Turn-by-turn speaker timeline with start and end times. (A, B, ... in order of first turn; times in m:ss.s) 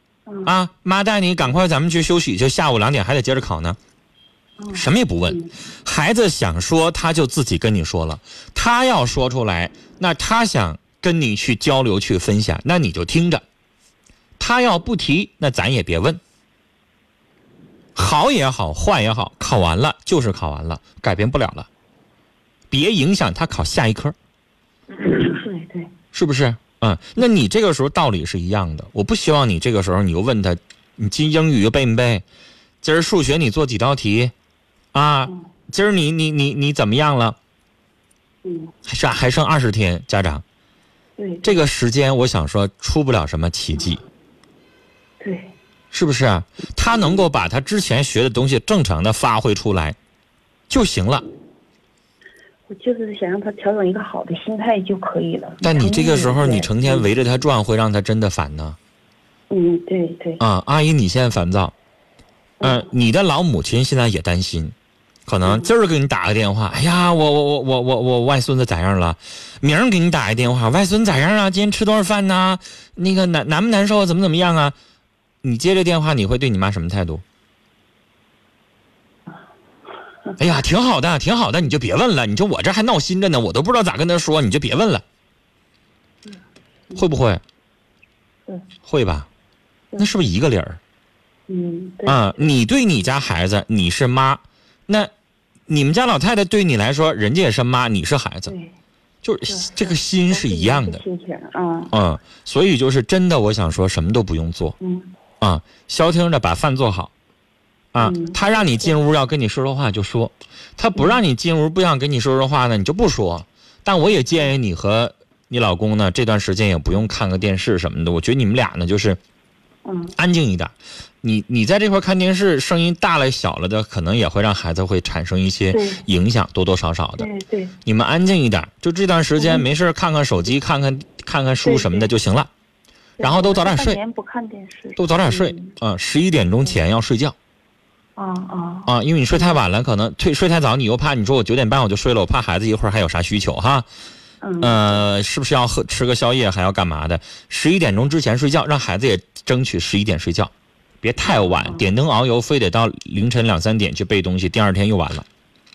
0:00.3-0:00.5 A
0:00.4-0:03.8 B
0:04.6-0:05.5 A
0:04.7-0:13.4 B
0:14.4-0:16.2 B
0:18.0-0:21.7 B
0:22.7-0:24.1 B
0:24.9-0:25.9 A
0:26.1-0:32.2 B
0:32.8-0:34.3 B
0:34.9-0:37.4 B
0:38.4-0:38.7 A
0:38.8-0:40.4 B
0:41.2-0:41.6 A
0:41.4-0:44.0 B
0:45.2-0:45.5 A
0:45.9-0:50.0 B
0:46.9-0:47.2 A
0:50.7-0:51.2 B
0:52.7-0:57.1 A
0:55.6-0:58.8 B
0:59.5-1:00.4 A
1:00.4-1:01.7 B
1:02.6-1:02.9 A
1:02.6-1:04.7 B
1:05.2-1:14.7 B
1:05.4-1:05.7 A
1:15.4-1:17.2 B
1:20.4-1:25.0 B
1:26.9-1:27.4 B
1:28.8-1:29.3 B
1:30.0-1:30.8 B
1:31.5-1:32.5 A
1:32.0-1:35.1 B
1:35.7-1:38.5 B
1:38.5-1:38.7 A
1:39.2-1:41.0 B
1:39.4-1:41.9 A
1:41.9-1:44.8 B
1:44.8-1:45.1 A
1:45.4-1:47.1 B
1:47.9-1:59.2 B
1:48.0-1:48.4 A
1:59.8-2:00.2 A
2:00.1-2:07.3 B
2:05.7-2:06.0 A
2:07.2-2:07.7 A
2:07.8-2:12.5 B
2:09.4-2:09.7 A
2:11.6-2:12.1 A
2:13.2-2:15.7 A
2:13.2-2:14.0 B
2:15.0-2:17.3 B
2:18.2-2:19.6 A
2:18.9-2:23.9 B
2:24.4-2:24.9 A
2:24.6-2:35.2 B